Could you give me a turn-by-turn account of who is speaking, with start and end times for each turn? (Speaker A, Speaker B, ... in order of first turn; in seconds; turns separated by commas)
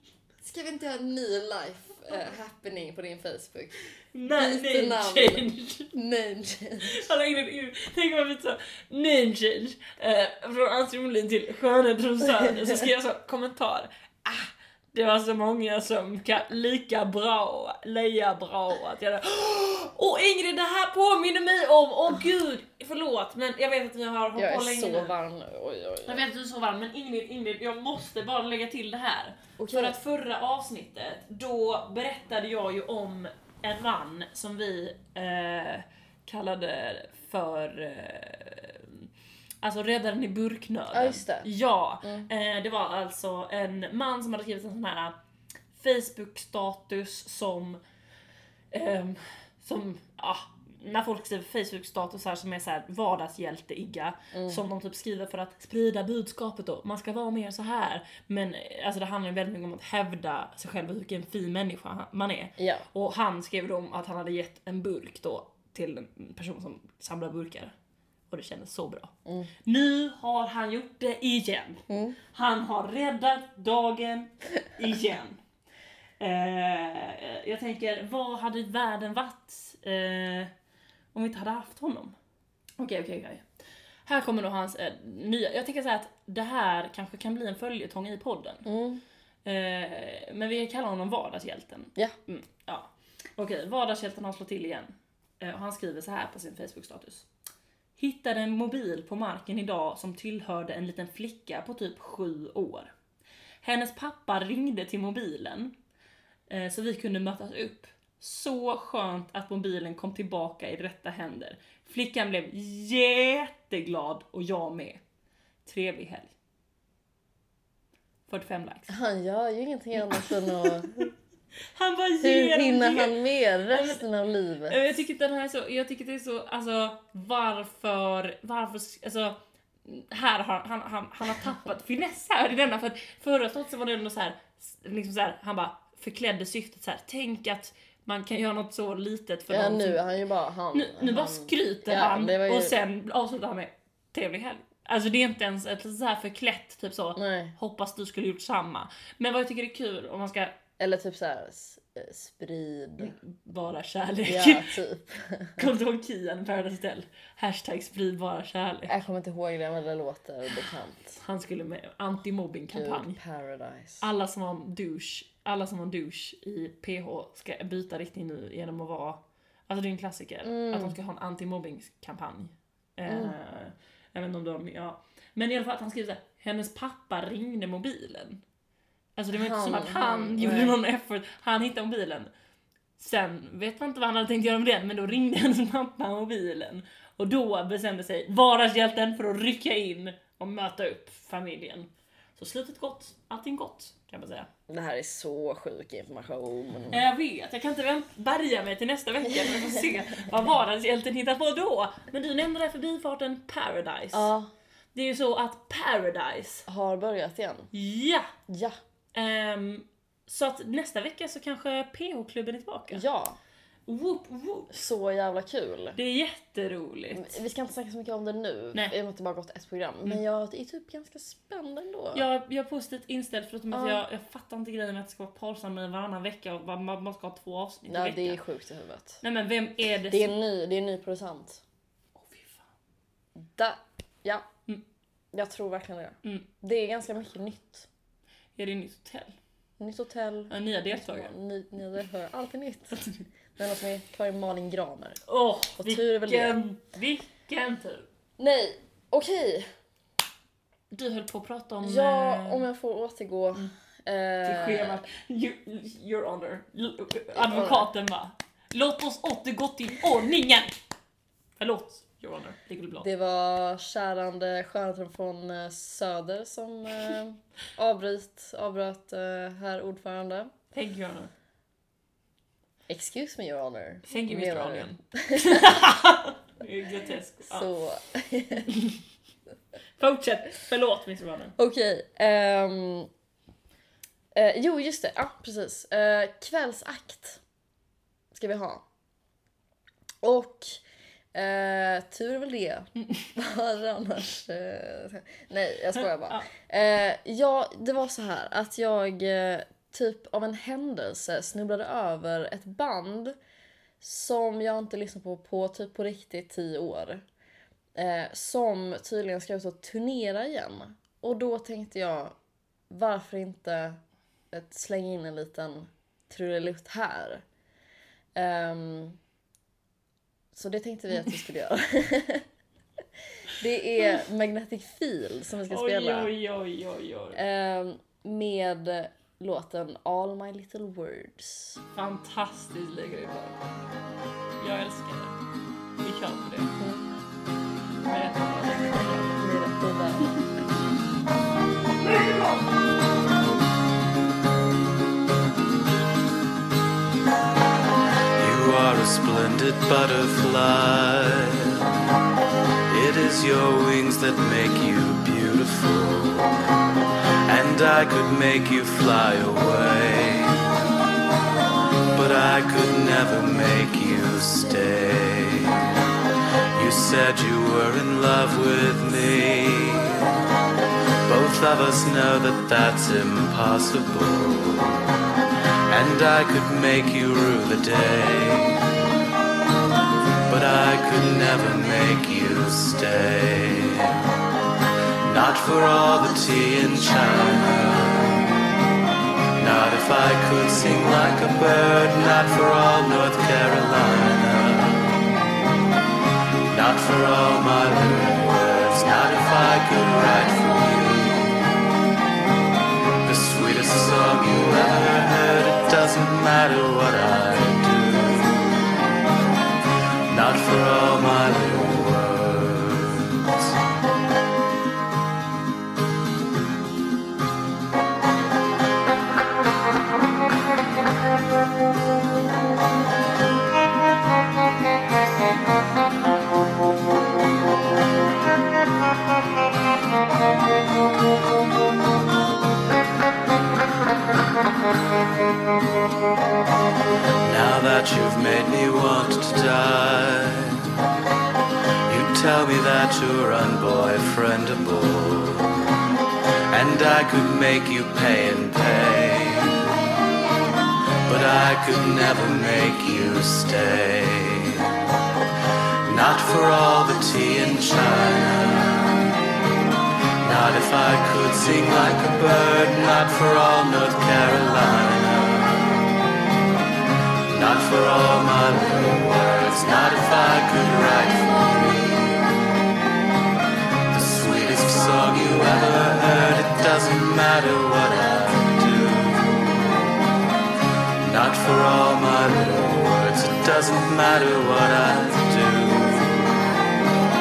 Speaker A: 0.4-3.8, Speaker B: 4.1-5.9, Speaker A: 4.3-6.9, Speaker B: 6.8-25.1, Speaker A: 24.4-26.2, Speaker B: 26.0-39.1, Speaker A: 29.6-29.9, Speaker B: 39.6-45.1, Speaker A: 40.9-41.5, Speaker A: 42.0-42.3, Speaker B: 45.7-47.8, Speaker B: 48.7-67.7, Speaker A: 54.3-54.6, Speaker A: 62.6-62.9, Speaker B: 68.3-69.1, Speaker A: 69.2-69.5, Speaker B: 69.6-75.4, Speaker A: 71.9-72.2, Speaker B: 76.2-80.5, Speaker B: 81.1-82.1, Speaker B: 82.8-83.4, Speaker B: 84.0-88.7, Speaker A: 88.6-89.0, Speaker B: 89.4-97.2, Speaker B: 98.0-102.9, Speaker B: 103.6-105.7, Speaker B: 106.5-115.0, Speaker B: 115.6-116.3, Speaker B: 118.3-118.9, Speaker A: 118.9-121.1, Speaker B: 120.3-121.0, Speaker B: 121.7-123.2, Speaker A: 122.2-124.8, Speaker B: 123.7-124.0, Speaker B: 124.7-140.0, Speaker A: 139.5-142.7, Speaker B: 140.7-150.6, Speaker A: 147.2-147.5, Speaker A: 150.8-153.1, Speaker B: 153.0-154.7, Speaker A: 154.2-155.7, Speaker B: 155.6-158.9, Speaker A: 158.9-161.1, Speaker B: 161.1-163.2, Speaker A: 162.7-164.0, Speaker B: 164.0-178.4, Speaker A: 170.4-170.9, Speaker A: 173.1-173.3, Speaker B: 179.2-182.3, Speaker A: 179.3-180.8, Speaker B: 183.0-194.5, Speaker A: 194.7-197.0, Speaker B: 196.9-204.3, Speaker A: 199.5-199.8, Speaker A: 204.1-204.5, Speaker B: 204.9-206.7, Speaker A: 206.7-207.7, Speaker B: 207.7-208.3, Speaker A: 208.5-208.8, Speaker B: 209.1-213.0, Speaker A: 212.9-213.4, Speaker B: 213.9-214.8, Speaker A: 214.7-216.0, Speaker B: 215.9-217.4, Speaker A: 217.1-222.2, Speaker B: 222.1-228.4, Speaker A: 223.7-224.0, Speaker A: 227.9-229.2, Speaker B: 229.2-230.3, Speaker A: 230.1-231.6, Speaker B: 232.1-232.7, Speaker A: 233.4-234.5, Speaker A: 235.3-237.9, Speaker B: 238.6-239.4, Speaker A: 239.8-245.2, Speaker B: 240.5-241.3, Speaker B: 245.2-248.1, Speaker A: 245.8-246.6, Speaker A: 248.4-249.7, Speaker B: 250.9-252.6, Speaker A: 251.8-255.0, Speaker B: 254.4-260.8, Speaker A: 257.4-257.9, Speaker B: 261.6-263.1, Speaker A: 263.0-270.5, Speaker B: 270.7-271.3, Speaker A: 272.9-275.7, Speaker B: 274.1-277.7, Speaker A: 277.4-278.7, Speaker B: 278.7-279.0, Speaker B: 280.0-281.5, Speaker A: 281.6-283.1, Speaker A: 284.3-287.4, Speaker A: 288.3-288.8, Speaker A: 290.2-290.8, Speaker A: 291.3-303.4, Speaker A: 304.0-307.2, Speaker A: 307.9-312.4, Speaker A: 312.9-314.0, Speaker A: 314.5-317.4, Speaker A: 318.4-319.2, Speaker A: 320.5-322.4, Speaker A: 323.5-326.3, Speaker B: 325.7-327.4, Speaker A: 327.4-331.8, Speaker B: 331.9-333.6, Speaker B: 334.6-335.4, Speaker B: 336.0-336.7, Speaker A: 336.8-337.1, Speaker B: 338.0-339.4, Speaker A: 339.4-340.3, Speaker B: 342.0-342.7, Speaker C: 348.4-351.9, Speaker C: 352.9-356.7, Speaker C: 357.4-360.6, Speaker C: 362.1-366.0, Speaker C: 366.7-370.4, Speaker C: 371.2-375.0, Speaker C: 375.9-378.9, Speaker C: 380.5-384.2, Speaker C: 385.2-388.4, Speaker C: 389.6-395.2, Speaker C: 396.7-401.6, Speaker C: 403.2-408.6, Speaker C: 410.3-413.7, Speaker C: 437.4-440.9, Speaker C: 442.1-445.8, Speaker C: 446.7-449.8, Speaker C: 451.2-455.0, Speaker C: 456.0-459.2, Speaker C: 460.4-466.0, Speaker C: 467.5-472.4, Speaker C: 474.1-479.9, Speaker C: 481.2-486.8